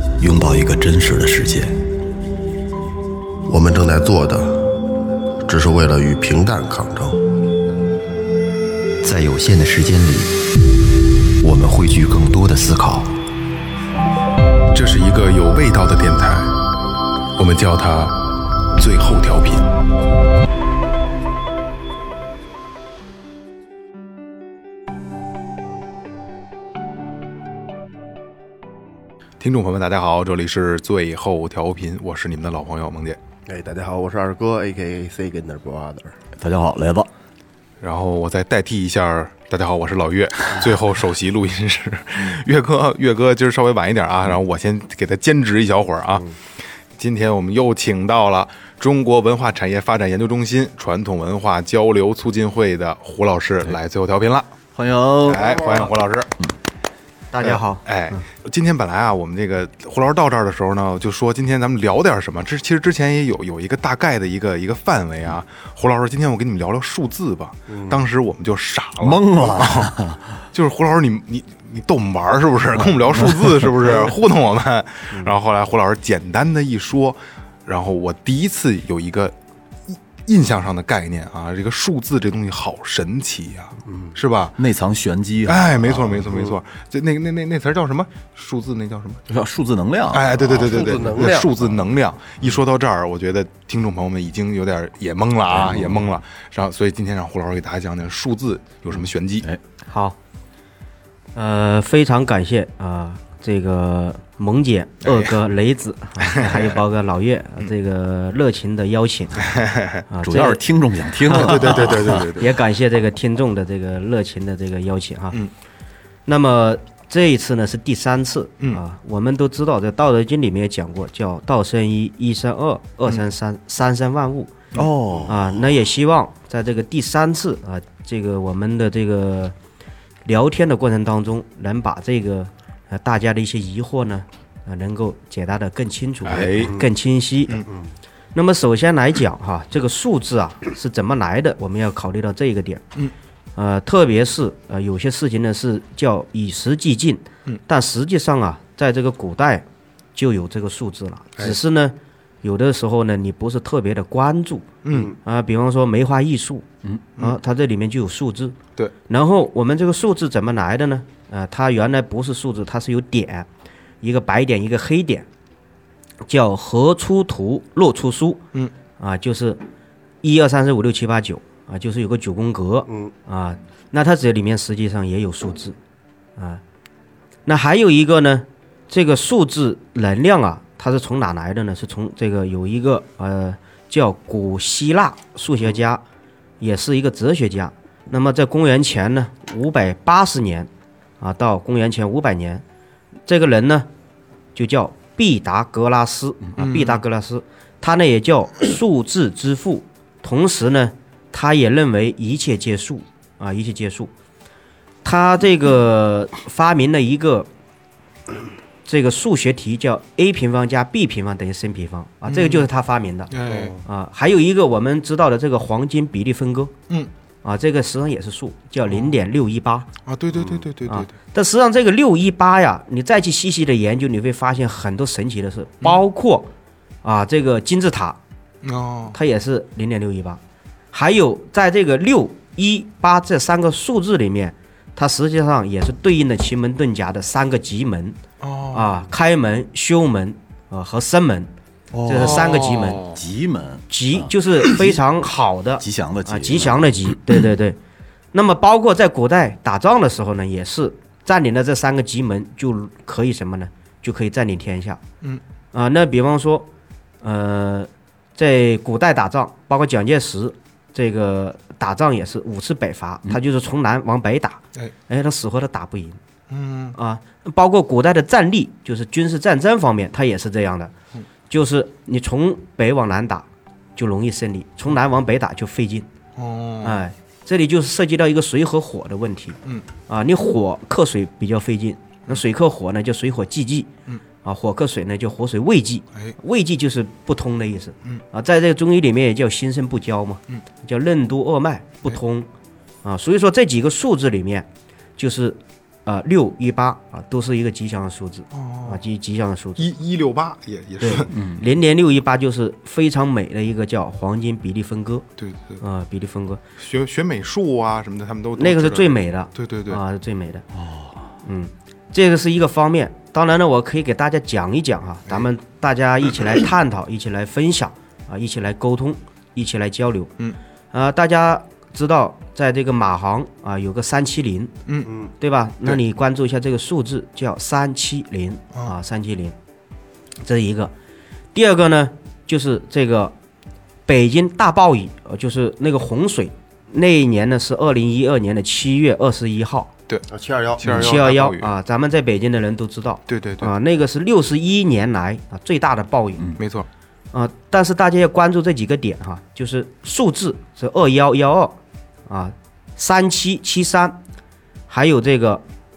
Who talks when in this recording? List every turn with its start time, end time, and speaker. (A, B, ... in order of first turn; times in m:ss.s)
0:00.2-0:01.8 A
0:03.4-0:04.7 B
0:05.4-0:07.2 B
0:09.0-0:10.4 C
0:11.4-0:13.1 C
0:14.7-0:16.5 D
0:17.4-0:18.2 D
0:18.7-0:19.7 D
0:29.4-0:33.2 D
0:33.4-0:36.1 B
0:36.4-0:37.1 A
0:37.8-0:46.4 D
0:46.9-0:54.5 D
0:54.7-0:55.6 A
0:55.2-0:56.3 D
0:57.3-0:58.2 E
0:57.4-1:09.9 D
1:09.0-1:10.2 A
1:10.5-1:19.3 D
1:13.2-1:13.5 A
1:19.9-1:24.6 D
1:23.9-1:24.1 B
1:24.6-1:26.2 A
1:25.4-1:29.2 D
1:29.3-1:30.6 A
1:30.1-1:39.4 D
1:30.5-1:31.5 B
1:35.5-1:36.1 A
1:38.9-1:39.6 A
1:39.9-1:40.2 E
1:41.3-1:49.5 E
1:45.0-1:45.4 D
1:46.2-1:46.8 D
1:49.4-1:50.0 D
1:50.1-1:50.6 E
1:50.2-1:52.3 A
1:51.2-1:55.4 E
1:51.4-1:52.5 D
1:56.3-2:04.5 E
2:04.7-2:05.5 A
2:05.2-2:09.5 E
2:10.2-2:17.6 E
2:16.2-2:16.8 D
2:18.3-2:22.8 E
2:23.6-2:34.7 E
2:34.8-2:35.1 D
2:35.2-2:36.6 E
2:37.2-2:38.6 E
2:39.1-2:43.5 E
2:44.0-2:45.2 E
2:46.3-2:48.4 E
2:49.0-2:49.6 E
2:50.2-2:55.8 E
2:57.4-3:06.0 E
3:06.6-3:10.7 E
3:11.2-3:12.6 E
3:13.3-3:13.9 E
3:14.5-3:24.1 E
3:16.5-3:17.0 A
3:25.0-3:27.5 E
3:28.8-3:33.3 E
3:32.3-3:32.7 D
3:33.3-3:33.8 D
3:33.8-3:36.7 E
3:37.4-3:39.9 E
3:40.0-3:41.1 D
3:40.8-3:46.5 E
3:47.0-3:48.2 E
3:48.6-3:49.2 D
3:49.1-3:50.4 E
3:50.9-3:58.2 E
3:58.4-3:58.9 D
3:58.7-4:01.5 E
4:01.9-4:05.0 A
4:02.0-4:03.0 E
4:02.1-4:03.2 D
4:03.9-4:07.8 E
4:05.8-4:07.4 A
4:08.3-4:15.0 E
4:15.7-4:16.6 E
4:17.2-4:26.2 E
4:26.5-4:27.0 D
4:26.9-4:30.9 E
4:31.5-4:36.1 E
4:36.4-4:37.0 D
4:36.8-4:43.9 E
4:44.4-4:52.5 E
4:53.0-4:54.6 E
4:55.2-4:59.8 E
4:58.5-4:59.0 D
4:59.8-5:01.3 D
5:01.0-5:05.2 E
5:01.3-5:01.6 A
5:05.4-5:05.8 D
5:05.8-5:06.6 E
5:06.8-5:10.0 D
5:08.6-5:10.6 E
5:10.7-5:11.3 A
5:11.4-5:20.3 E
5:20.9-5:24.7 E
5:24.9-5:25.1 D
5:25.4-5:29.5 E
5:30.4-5:30.9 E
5:31.5-5:33.3 E
5:34.0-5:39.9 E
5:40.3-5:41.1 B
5:40.8-5:41.7 D
5:40.8-5:46.4 E
5:43.3-5:43.7 D
5:46.6-5:46.9 D
5:47.3-5:51.7 E
5:52.3-5:54.2 E
5:54.9-5:55.6 E